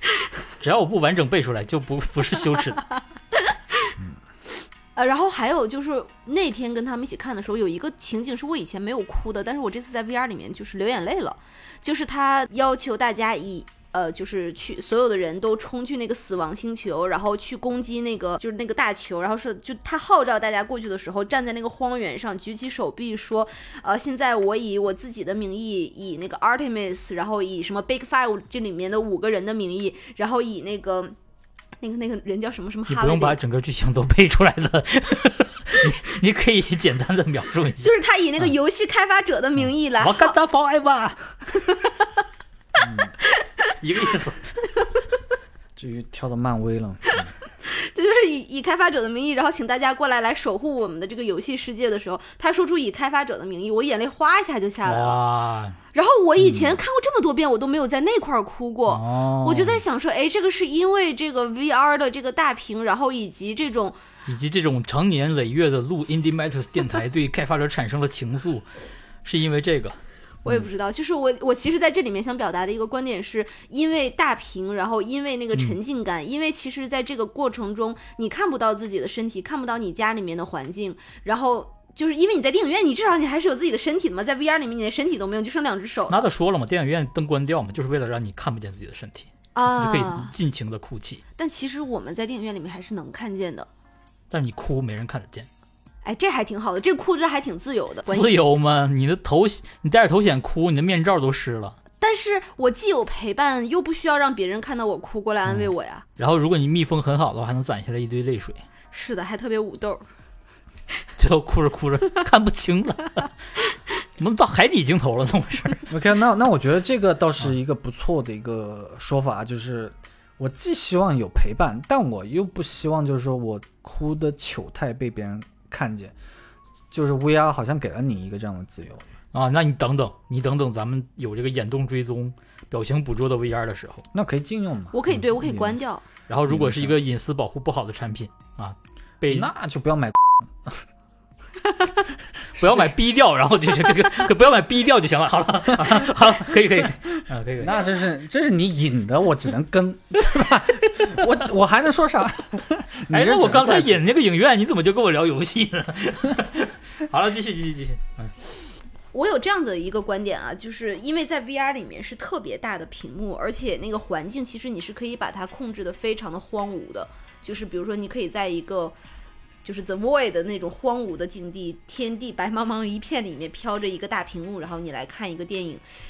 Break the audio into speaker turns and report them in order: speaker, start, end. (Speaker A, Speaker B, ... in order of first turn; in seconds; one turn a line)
Speaker A: 0.6-2.9
Speaker B: 3.3-3.9
Speaker B: 5.0-31.1
Speaker B: 31.8-33.4
Speaker A: 32.9-37.9
Speaker B: 37.8-40.4
Speaker A: 40.0-41.3
Speaker C: 42.8-43.1
Speaker B: 43.4-43.7
Speaker A: 43.8-44.5
Speaker C: 45.8-47.3
Speaker B: 47.6-55.2
Speaker A: 54.8-55.8
Speaker B: 55.9-64.0
Speaker C: 56.4-56.8
Speaker A: 58.9-59.8
Speaker A: 64.3-68.7
Speaker A: 69.2-70.0
Speaker B: 70.4-86.2
Speaker A: 86.1-91.2
Speaker B: 89.5-90.3
Speaker B: 91.4-93.7
Speaker A: 94.3-95.5
Speaker B: 96.0-98.3
Speaker A: 98.1-101.8
Speaker B: 102.0-106.0
Speaker A: 105.5-108.6
Speaker B: 108.9-110.0
Speaker A: 111.2-113.3
Speaker A: 114.2-115.9
Speaker C: 115.9-126.1
Speaker C: 126.9-129.0
Speaker A: 129.3-134.1
Speaker C: 134.1-135.8
Speaker B: 134.9-136.1
Speaker A: 136.3-139.5
Speaker C: 136.5-137.0
Speaker C: 139.3-140.8
Speaker A: 142.6-147.8
Speaker C: 147.6-154.0
Speaker A: 153.1-158.3
Speaker B: 159.1-168.9
Speaker B: 169.6-175.8